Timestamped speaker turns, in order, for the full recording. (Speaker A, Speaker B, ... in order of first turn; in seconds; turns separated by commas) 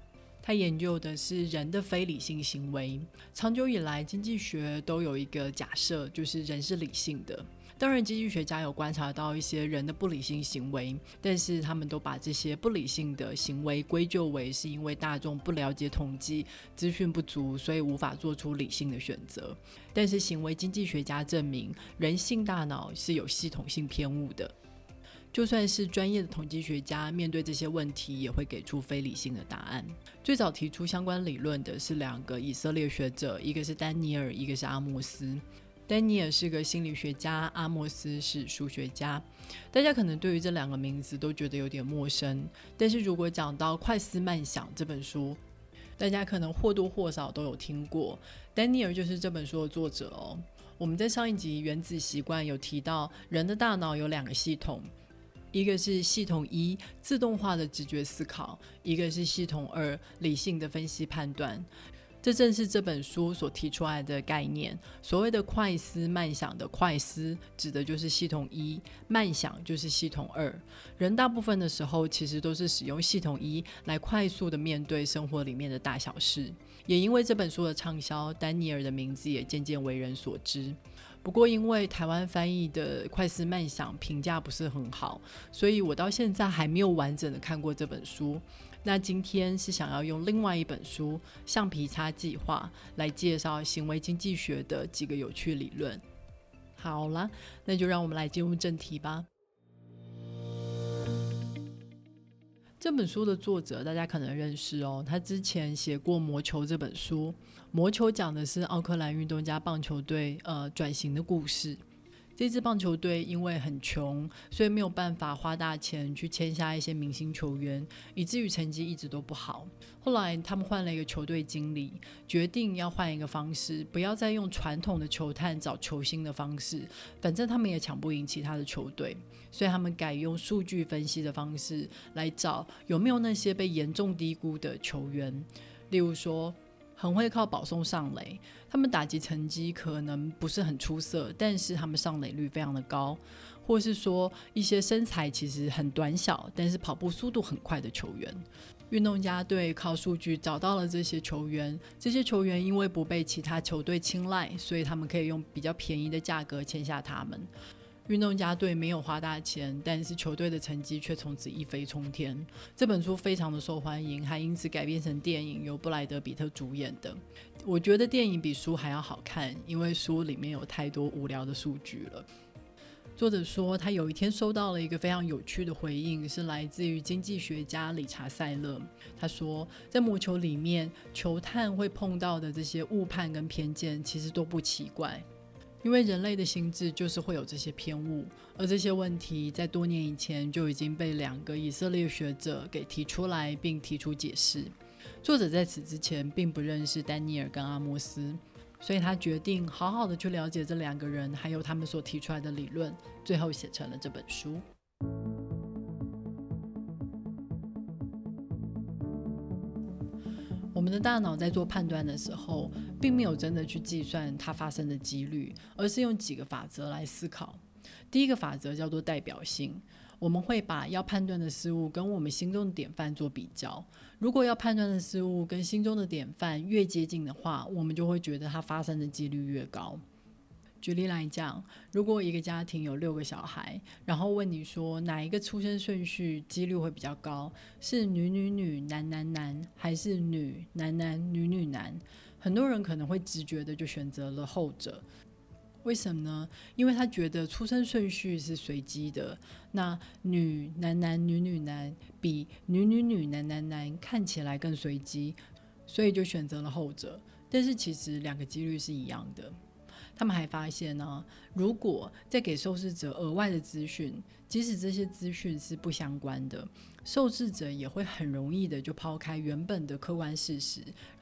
Speaker A: 0.4-24.5, Speaker A: 25.3-45.4, Speaker A: 46.0-54.9, Speaker A: 55.5-61.7, Speaker A: 62.2-96.0, Speaker A: 96.8-99.3, Speaker A: 102.8-111.8, Speaker A: 112.4-157.5, Speaker A: 158.1-172.3, Speaker A: 173.2-185.2, Speaker A: 185.8-204.6, Speaker A: 210.7-230.0, Speaker A: 230.8-245.0, Speaker A: 245.8-259.5, Speaker A: 260.1-270.9